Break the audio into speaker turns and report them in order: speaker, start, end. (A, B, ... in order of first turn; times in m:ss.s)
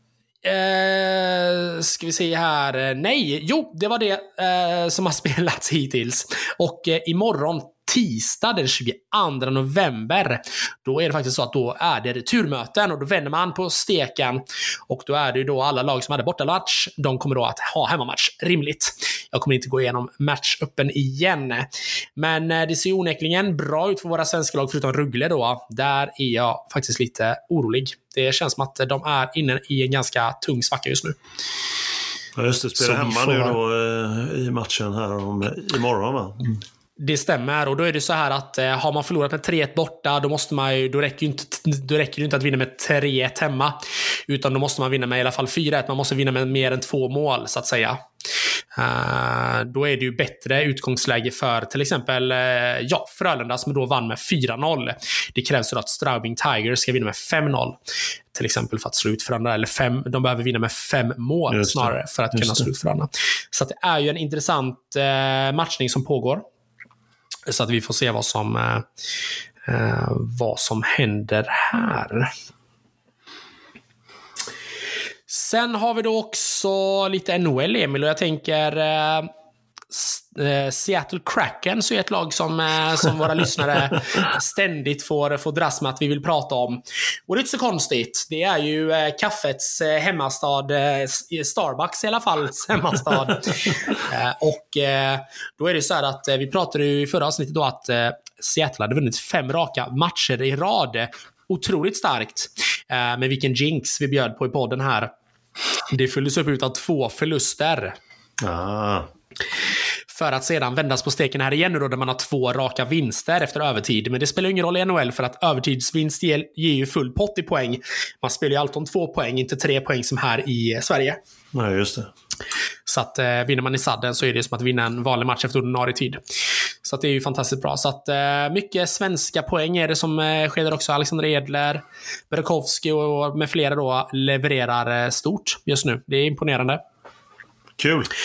0:00.4-0:31.2 A
0:32.4-0:36.6 B
0:32.8-0:33.6 A
0:37.0-0:48.0 A
0:48.7-0:57.8 A
0:58.3-1:06.4 A
1:01.5-1:02.6 B
1:07.4-1:08.9 A
1:09.6-1:12.3 A
1:15.3-1:19.3 A
1:19.9-1:45.1 A
1:45.9-1:48.0 A
1:48.4-1:49.1 B
1:50.1-2:01.2 A
2:01.5-2:02.1 B
2:02.8-2:06.2 A
2:06.8-2:16.8 A
2:17.8-2:18.1 B